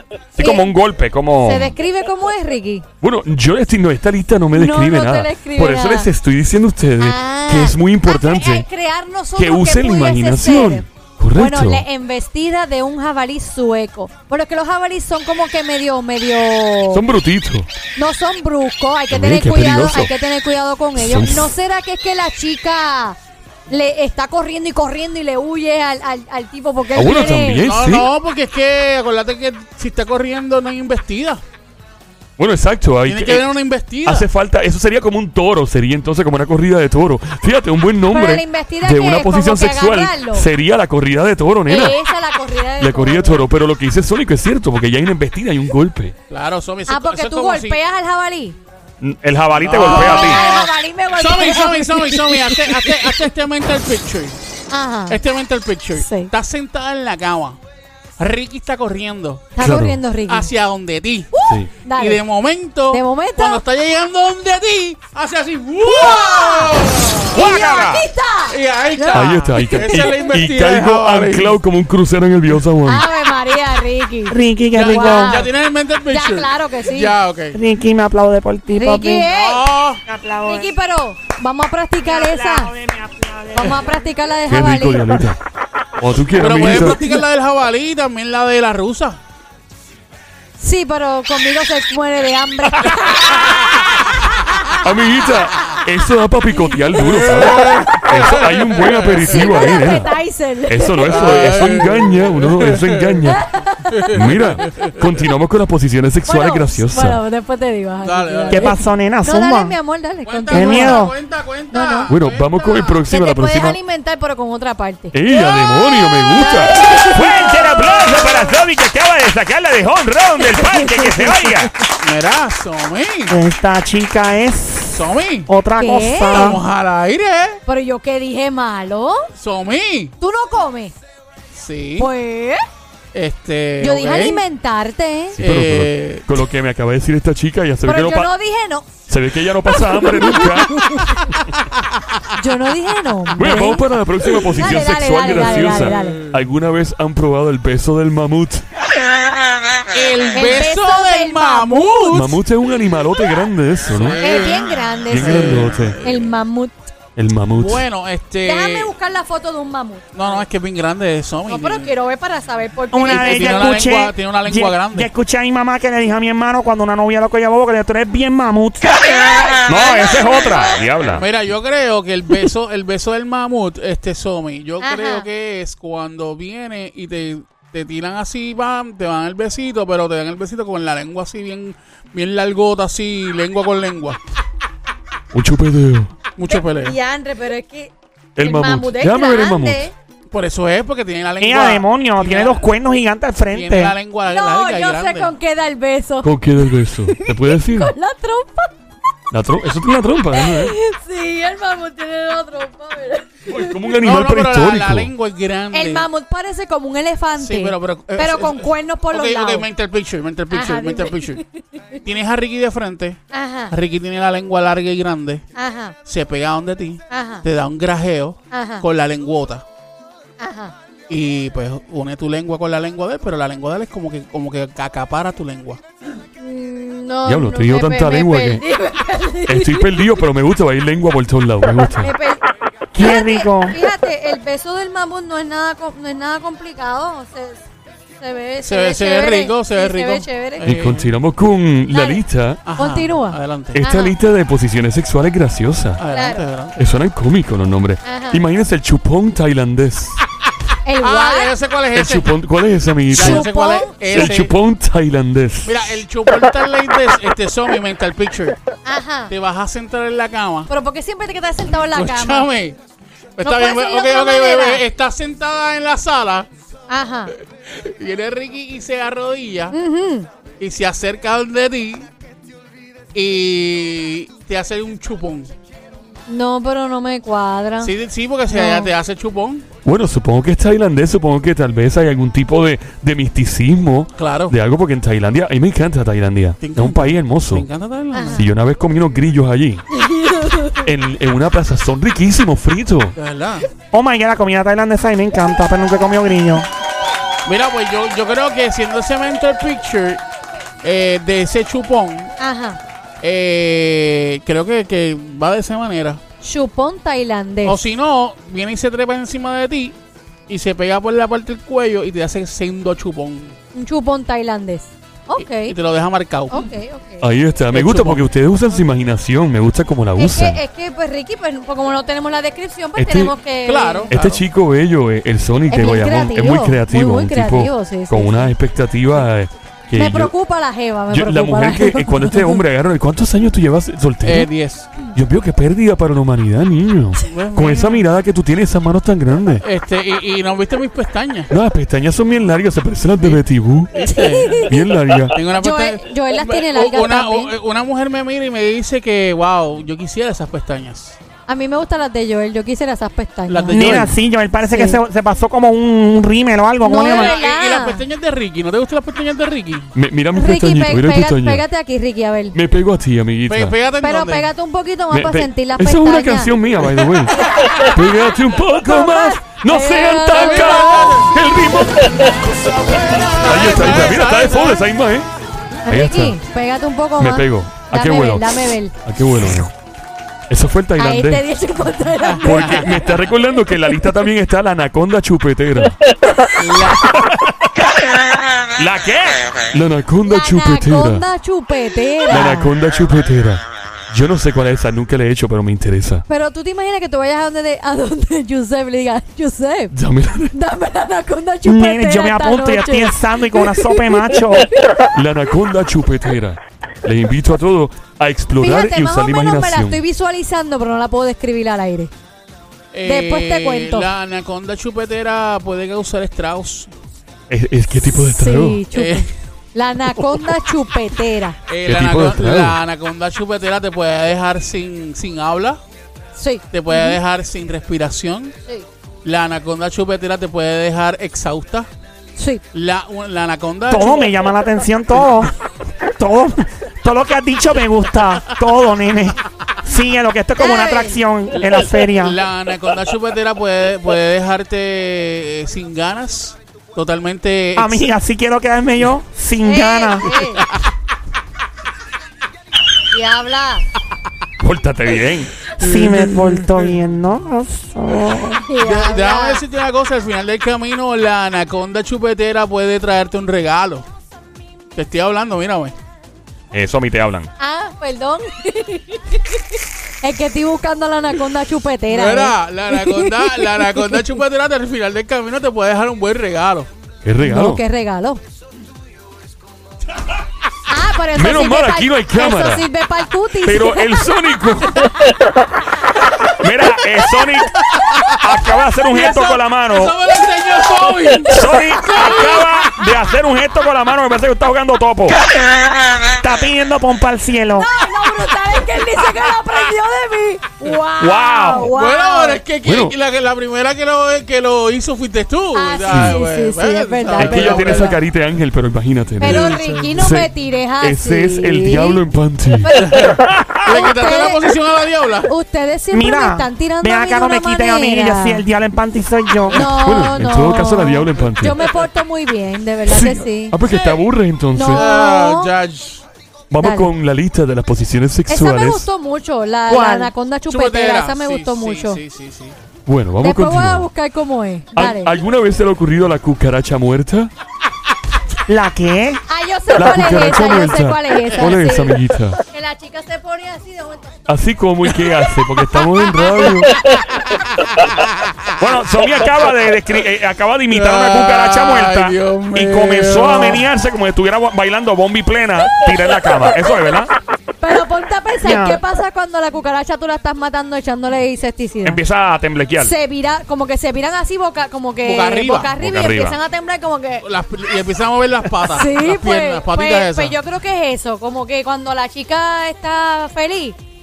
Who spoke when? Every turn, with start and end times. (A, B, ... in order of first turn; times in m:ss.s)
0:00.4-0:01.8 A
0:00.4-0:00.7 B
0:01.4-0:02.9 B
0:03.0-0:08.6 C
0:04.5-0:06.1 B
0:07.0-0:17.0 B
0:09.4-0:11.8 C
0:16.9-0:17.7 C
0:18.0-0:23.2 B
0:19.1-0:20.1 C
0:21.0-0:21.5 C
0:23.7-0:27.7 B
0:26.9-0:28.1 C
0:27.6-0:31.4 D
0:32.4-0:33.5 C
0:33.0-0:34.3 D
0:34.0-0:42.0 C
0:38.1-0:40.5 B
0:41.7-0:43.4 B
0:42.8-0:46.1 C
0:46.3-0:47.8 D
0:46.9-0:48.6 B
0:49.0-0:50.4 A
0:49.6-0:54.4 D
0:49.8-0:53.1 B
0:54.7-0:55.2 B
0:55.1-0:57.6 D
0:56.0-0:56.3 B
0:58.2-0:59.5 D
0:59.6-1:00.5 B
0:59.6-1:00.0 C
1:00.2-1:01.3 D
1:01.3-1:02.2 B
1:01.5-1:01.7 C
1:01.9-1:11.6 D
1:02.9-1:03.6 B
1:05.8-1:10.3 B
1:07.3-1:08.0 A
1:09.1-1:13.1 C
1:12.8-1:15.5 B
1:14.3-1:15.4 E
1:14.7-1:17.6 D
1:16.1-1:17.1 B
1:17.5-1:19.3 E
1:18.7-1:19.7 B
1:19.3-1:20.0 D
1:20.0-1:20.7 E
1:20.4-1:22.7 B
1:22.0-1:24.0 E
1:23.5-1:25.2 B
1:24.5-1:25.4 C
1:26.0-1:27.2 C
1:26.4-1:29.2 D
1:30.6-1:33.9 B
1:34.8-1:40.1 C
1:37.0-1:39.7 D
1:39.2-1:41.6 B
1:40.7-1:43.5 C
1:41.1-1:43.2 D
1:43.2-1:44.2 B
1:43.9-1:45.1 D
1:44.1-1:47.2 C
1:46.2-1:51.1 B
1:48.0-1:48.8 D
1:48.5-1:49.8 E
1:50.2-1:53.0 D
1:50.5-1:51.1 E
1:51.7-1:52.1 B
1:52.1-1:53.8 C
1:53.1-1:57.8 B
1:55.1-1:56.8 C
1:57.1-2:01.7 A
2:00.5-2:01.5 B
2:02.0-2:03.4 D
2:03.3-2:06.6 E
2:04.9-2:05.5 D
2:05.8-2:06.6 B
2:06.3-2:07.6 D
2:07.6-2:09.3 B
2:09.4-2:10.1 D
2:10.2-2:10.9 B
2:11.5-2:12.1 D
2:12.0-2:12.6 B
2:13.1-2:14.4 D
2:13.8-2:15.4 B
2:15.4-2:18.3 C
2:15.4-2:16.3 D
2:17.8-2:18.9 B
2:19.1-2:21.1 C
2:19.7-2:21.2 B
2:22.4-2:26.3 B
2:23.4-2:28.6 C
2:25.7-2:26.1 D
2:29.9-2:32.4 D
2:30.3-2:32.2 B
2:32.1-2:34.2 C
2:33.9-2:36.4 D
2:34.2-2:36.9 B
2:35.1-2:36.0 C
2:37.2-2:37.9 C
2:37.6-2:38.9 D
2:38.4-2:40.4 B
2:40.1-2:41.9 D
2:41.5-2:43.9 B
2:42.9-2:49.0 E
2:43.0-2:45.1 D
2:49.1-2:50.8 B
2:49.6-2:51.2 A
2:51.1-3:04.2 D
2:54.8-2:55.2 B
3:05.3-3:06.1 C
3:06.4-3:07.0 D
3:06.4-3:09.9 B
3:08.4-3:09.9 C
3:10.3-3:12.7 D
3:11.4-3:14.0 E
3:13.5-3:15.3 D
3:14.3-3:18.8 B
3:16.2-3:17.9 C
3:19.3-3:20.8 C
3:20.3-3:23.8 B
3:23.5-3:25.1 C
3:24.0-3:26.1 D
3:25.7-3:29.7 B
3:27.4-3:31.4 D
3:30.5-3:32.0 B
3:32.0-3:35.4 D
3:33.3-3:33.8 B
3:35.6-3:36.0 B
3:36.0-3:39.6 D
3:37.1-3:37.4 B
3:38.5-3:38.8 B
3:40.4-3:40.7 B
3:41.1-3:45.8 D
3:46.4-3:50.1 B
3:47.2-3:48.6 C
3:49.5-3:52.1 C
3:51.9-3:52.4 B
3:52.9-3:53.8 E
3:53.0-3:57.6 B
3:58.2-4:00.7 B
3:58.6-4:01.1 D
4:00.6-4:02.6 C
4:01.9-4:02.2 B
4:02.6-4:03.8 D
4:02.8-4:04.2 B
4:03.7-4:06.0 C
4:06.0-4:06.8 D
4:06.1-4:06.5 B
4:06.8-4:10.2 C
4:08.0-4:08.4 B
4:10.8-4:11.6 B
4:11.0-4:12.3 D
4:11.9-4:13.5 C
4:13.1-4:14.5 D
4:13.1-4:14.4 B
4:14.0-4:16.0 C
4:15.6-4:18.8 D
4:18.8-4:19.3 B
4:19.3-4:20.7 D
4:20.7-4:22.5 B
4:21.9-4:22.8 D
4:23.4-4:26.5 D
4:23.4-4:24.8 B
4:26.9-4:27.3 B
4:27.6-4:29.8 D
4:29.7-4:30.3 B
4:30.6-4:32.1 D
4:33.1-4:35.5 D
4:36.3-4:37.9 B
4:37.8-4:39.6 D
4:38.5-4:38.9 B
4:39.8-4:47.7 C
4:44.2-4:44.5 D
4:46.6-4:48.5 D
4:48.1-4:48.4 B
4:48.4-4:49.9 C
4:49.9-4:50.9 B
4:50.8-4:53.2 C
4:53.2-4:53.6 D
4:53.9-4:56.7 E
4:57.4-5:00.2 D
5:00.8-5:02.4 D
5:02.4-5:02.8 B
5:03.2-5:06.2 D
5:06.4-5:07.8 B
5:07.6-5:10.0 D
5:10.5-5:13.6 D
5:13.7-5:15.8 B
5:15.4-5:16.7 D
5:16.5-5:17.3 B
5:17.2-5:20.6 C
5:17.7-5:18.2 D
5:20.2-5:24.1 B
5:23.0-5:23.3 C
5:23.6-5:24.4 D
5:24.1-5:30.3 C
5:25.7-5:28.5 B
5:29.9-5:32.6 B
5:31.1-5:34.5 C
5:34.2-5:34.9 D
5:35.1-5:39.6 C
5:37.2-5:38.0 D
5:39.6-5:41.5 D
5:41.5-5:44.0 C
5:43.9-5:44.8 D
5:44.1-5:44.7 B
5:44.6-5:45.4 C
5:45.3-5:51.2 D
5:45.5-5:47.5 B
5:51.5-5:54.1 B
5:53.5-5:54.1 D
5:53.7-5:57.4 E
5:54.7-5:55.0 B
5:56.8-5:58.0 B
5:56.9-5:59.9 D
6:00.0-6:01.6 C
6:00.3-6:02.6 B
6:02.5-6:03.8 C
6:03.5-6:04.5 D
6:04.0-6:06.5 B
6:05.1-6:15.3 C
6:07.4-6:07.7 B
6:08.8-6:11.2 B
6:10.3-6:11.4 D
6:12.9-6:14.8 D
6:15.9-6:18.9 B
6:15.9-6:16.4 C
6:17.2-6:19.7 C
6:20.5-6:21.4 C
6:21.0-6:23.1 B
6:22.2-6:23.0 D
6:22.4-6:26.0 C
6:26.6-6:27.1 D
6:28.8-6:29.5 A
6:29.7-6:31.2 C
6:30.2-6:32.7 B
6:32.3-6:36.2 C
6:36.3-6:40.0 B
6:39.9-6:40.5 C
6:40.5-6:44.2 B
6:41.6-6:44.7 E
6:45.1-6:50.0 C
6:48.6-6:52.1 B
6:52.9-6:56.9 D
6:53.0-6:54.1 B
6:57.5-6:58.8 C
6:58.0-7:01.6 B
6:58.9-6:59.3 D
7:01.7-7:05.8 D
7:01.8-7:02.8 C
7:06.4-7:07.2 B
7:06.7-7:08.6 D
7:09.2-7:11.9 D
7:12.4-7:12.6 B
7:12.7-7:14.3 D
7:13.9-7:15.5 E
7:16.2-7:22.4 E
7:20.6-7:21.2 B
7:22.1-7:28.1 D
7:27.8-7:30.4 E
7:29.6-7:30.6 B
7:30.4-7:30.6 D
7:33.1-7:33.9 B
7:34.6-7:35.5 A
7:35.8-7:36.9 D
7:35.8-7:38.6 E
7:38.6-7:39.6 B
7:38.8-7:44.0 D
7:45.0-7:46.0 D
7:46.7-7:47.5 A
7:47.6-7:54.2 B
7:52.1-7:56.9 D
7:57.2-7:57.8 C
7:57.4-7:58.4 B
8:00.9-8:04.2 B
8:01.3-8:02.9 C
8:03.6-8:05.1 C
8:06.6-8:10.2 A
8:09.1-8:12.6 D
8:11.5-8:15.4 A
8:12.0-8:12.7 B
8:16.3-8:17.9 E
8:17.8-8:22.6 B
8:21.2-8:21.9 A
8:21.8-8:28.2 D
8:22.8-8:23.1 C
8:25.7-8:28.2 B
8:26.1-8:26.4 C
8:27.4-8:33.0 C
8:29.4-8:32.2 B
8:29.4-8:30.2 D
8:32.8-8:34.6 B
8:33.0-8:35.5 D
8:35.5-8:38.6 B
8:36.1-8:39.8 E
8:39.7-8:43.8 B
8:39.8-8:41.8 C
8:43.0-8:45.1 C
8:43.9-8:44.1 D
8:44.8-8:45.7 B
8:44.9-8:46.2 D
8:46.7-8:49.1 C
8:46.8-8:47.1 B
8:48.5-8:52.2 B
8:49.9-8:50.3 E
8:50.7-8:52.8 D
8:53.1-8:54.1 C
8:53.4-8:55.4 B
8:54.9-8:57.5 C
8:58.7-8:59.4 E
8:59.5-9:04.4 B
8:59.9-9:02.6 C
9:04.5-9:07.0 C
9:06.0-9:06.9 B
9:07.5-9:08.6 D
9:08.8-9:17.3 A
9:10.9-9:13.9 D
9:17.8-9:22.2 B
9:18.6-9:19.0 E
9:22.0-9:23.1 A
9:23.0-9:27.4 B
9:25.2-9:25.9 D
9:26.0-9:26.6 A
9:27.4-9:30.6 D
9:28.8-9:34.0 B